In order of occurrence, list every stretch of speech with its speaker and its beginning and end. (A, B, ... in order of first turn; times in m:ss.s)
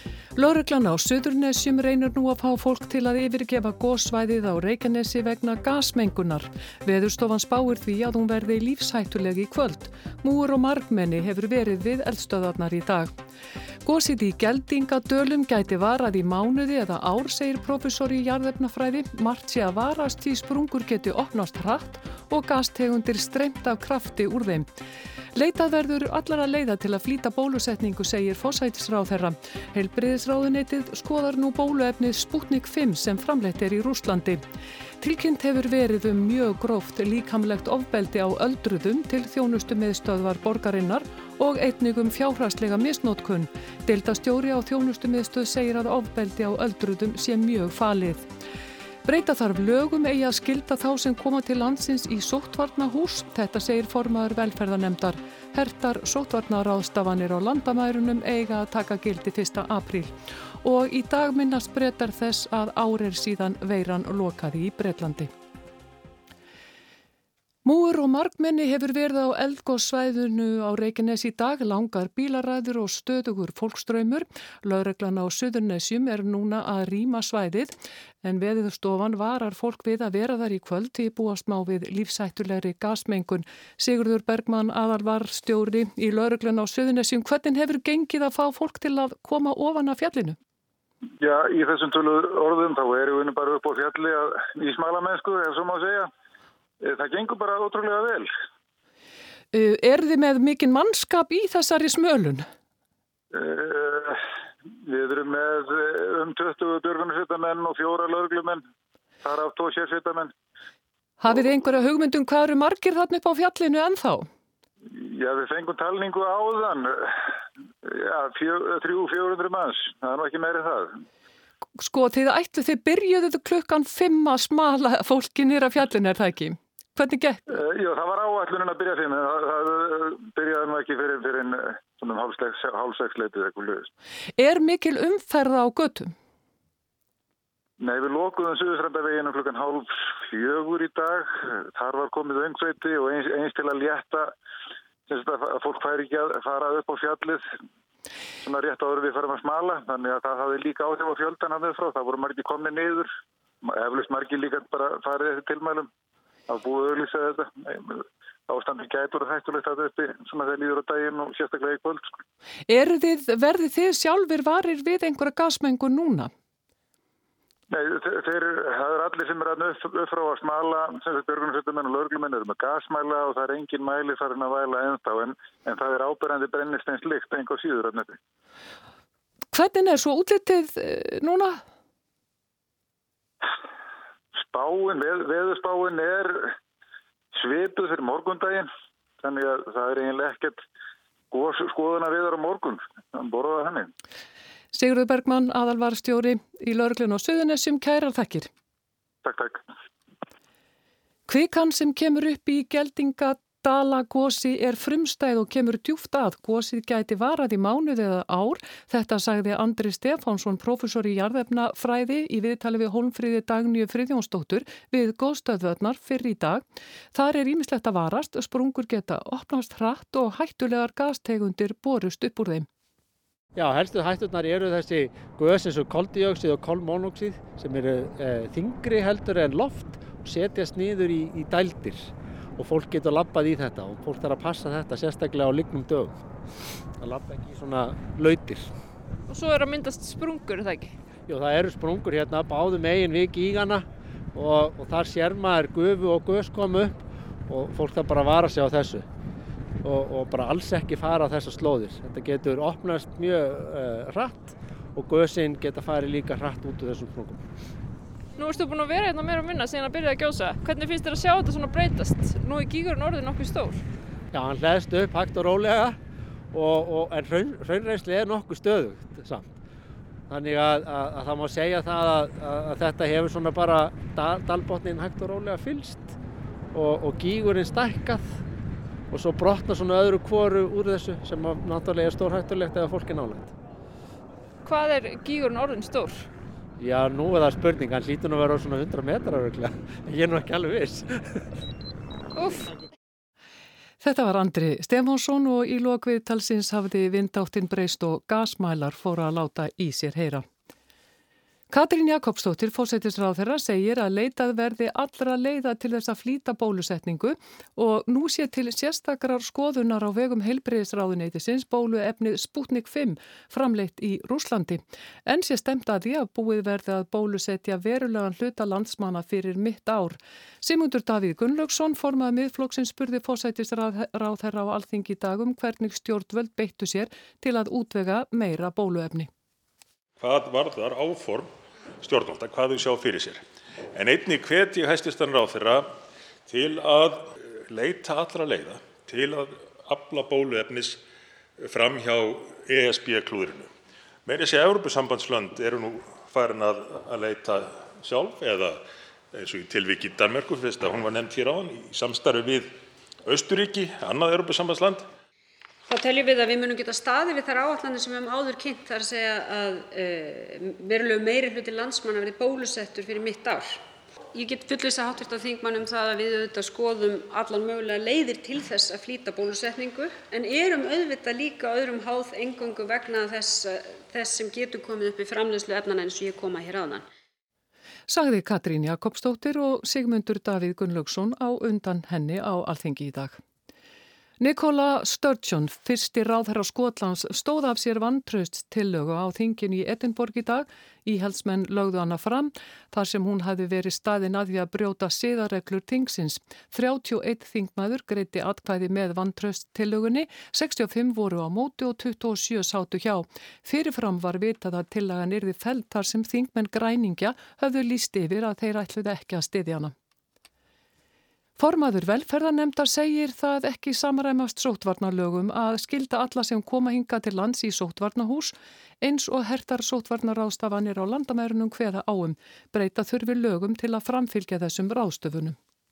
0:00.4-0:13.1 A
0:13.8-0:24.7 A
0:25.4-0:34.4 A
0:35.0-0:48.3 A
0:49.0-1:05.3 A
1:07.6-1:30.4 A
1:31.2-1:36.1 B
1:36.8-1:38.3 B
1:39.5-1:42.5 A
1:43.3-1:44.2 B
1:44.9-1:48.6 B
1:49.2-1:50.3 B
1:51.2-1:54.3 A
1:54.9-1:57.2 B
1:57.8-2:01.0 B
2:01.8-2:07.4 A
2:07.5-2:13.9 B
2:14.4-2:16.1 A
2:17.8-2:24.3 B
2:25.1-2:27.5 B
2:28.4-2:33.1 B
2:33.6-2:35.9 B
2:36.5-2:42.2 B
2:42.7-2:46.3 A
2:47.7-2:58.2 B
2:59.5-3:01.6 A
3:04.4-3:06.6 B
3:07.3-3:08.7 B
3:09.2-3:10.6 B
3:11.3-3:13.9 B
3:14.7-3:18.5 A
3:19.2-3:19.6 B
3:21.3-3:36.6 A
3:37.1-3:42.7 A
3:43.6-3:56.2 C
3:57.0-3:58.7 C
3:59.3-4:01.0 D
4:01.3-4:09.1 C
4:09.8-4:17.4 C
4:18.4-4:23.8 D
4:24.3-4:26.0 C
4:26.5-4:29.5 C
4:30.3-4:36.2 C
4:36.7-4:38.4 C
4:39.1-4:43.5 C
4:44.6-4:46.3 D
4:46.8-4:51.4 C
4:52.4-4:52.7 D
4:54.0-5:00.4 A
5:01.7-5:29.3 A
5:30.2-5:33.4 E
5:33.9-5:35.9 E
5:36.5-5:41.0 E
5:41.6-5:43.7 E
5:44.3-5:52.7 E
5:53.3-5:55.1 E
5:55.9-6:03.8 F
6:04.3-6:17.1 F
6:18.1-6:23.4 A
6:24.4-6:49.9 A
6:51.6-7:05.6 A